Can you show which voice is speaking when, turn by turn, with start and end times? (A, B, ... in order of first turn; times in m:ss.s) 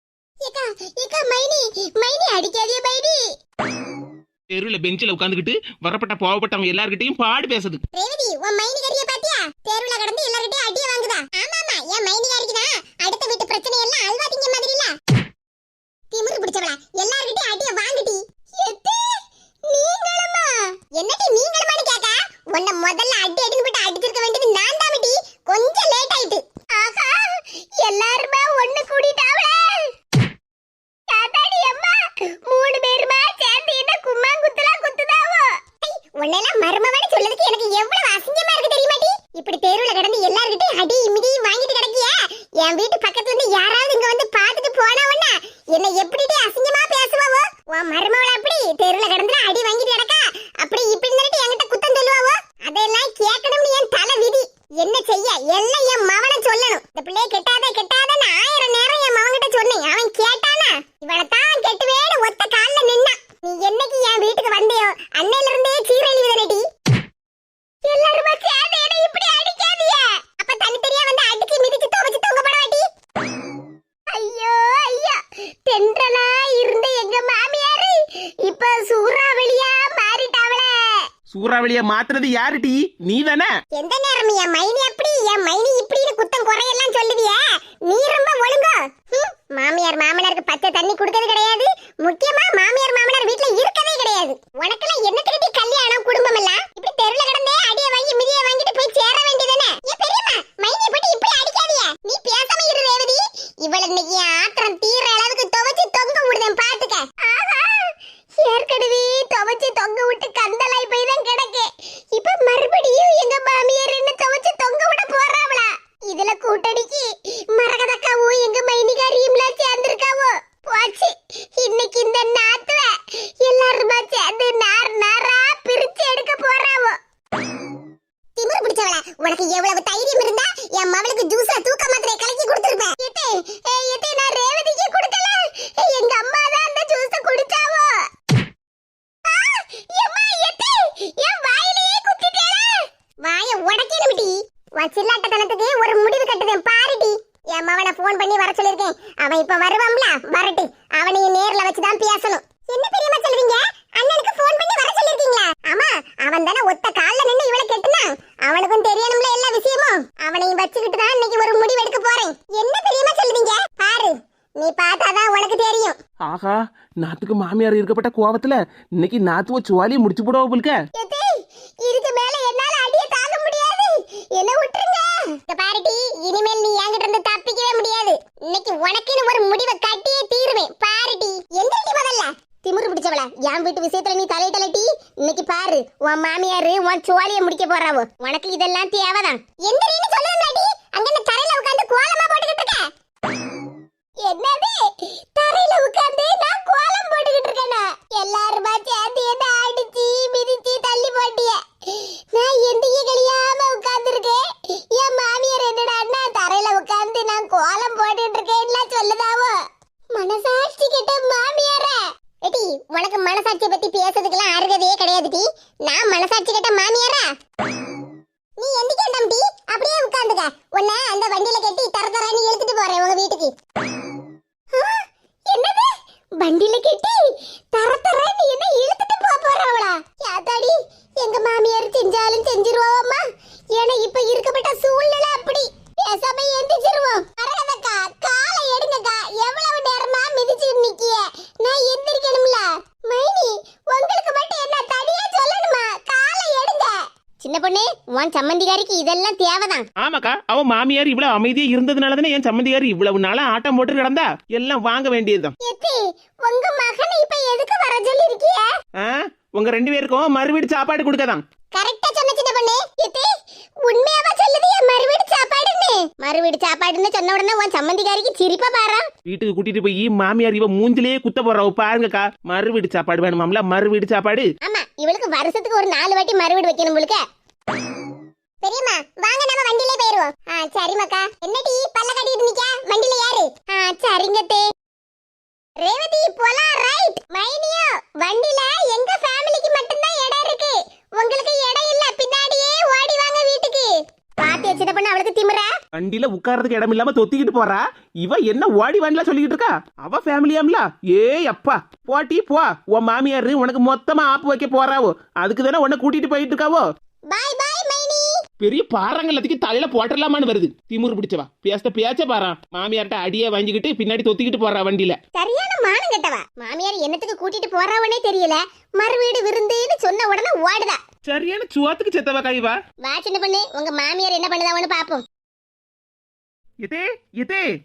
0:00.4-0:03.2 A
0:04.5-0:07.8 B
0:07.9-0:15.0 A
0:16.1-0:29.9 A
0:31.1-1:06.6 A
1:07.8-1:12.9 A
1:14.1-1:21.0 A
1:21.3-1:23.5 B
1:23.7-2:07.0 A
2:08.4-2:18.0 A
2:19.3-2:46.0 A
2:46.2-2:50.8 B
2:51.0-3:12.9 A
3:14.2-3:29.6 A
3:30.1-3:37.3 A
3:38.6-3:43.5 A
3:44.7-4:09.9 A
4:10.0-4:15.5 B
4:15.6-4:18.7 A
4:19.0-4:21.4 B
4:21.7-4:23.3 A
4:23.8-4:29.1 A
4:29.3-4:34.5 B
4:34.6-4:37.2 A
4:38.6-4:44.6 A
4:45.8-4:55.7 A
4:56.0-5:06.9 B
5:07.3-5:08.4 A
5:08.6-5:15.2 B
5:15.4-5:21.0 A
5:21.2-5:22.8 B
5:23.0-5:25.2 A
5:26.8-5:27.7 B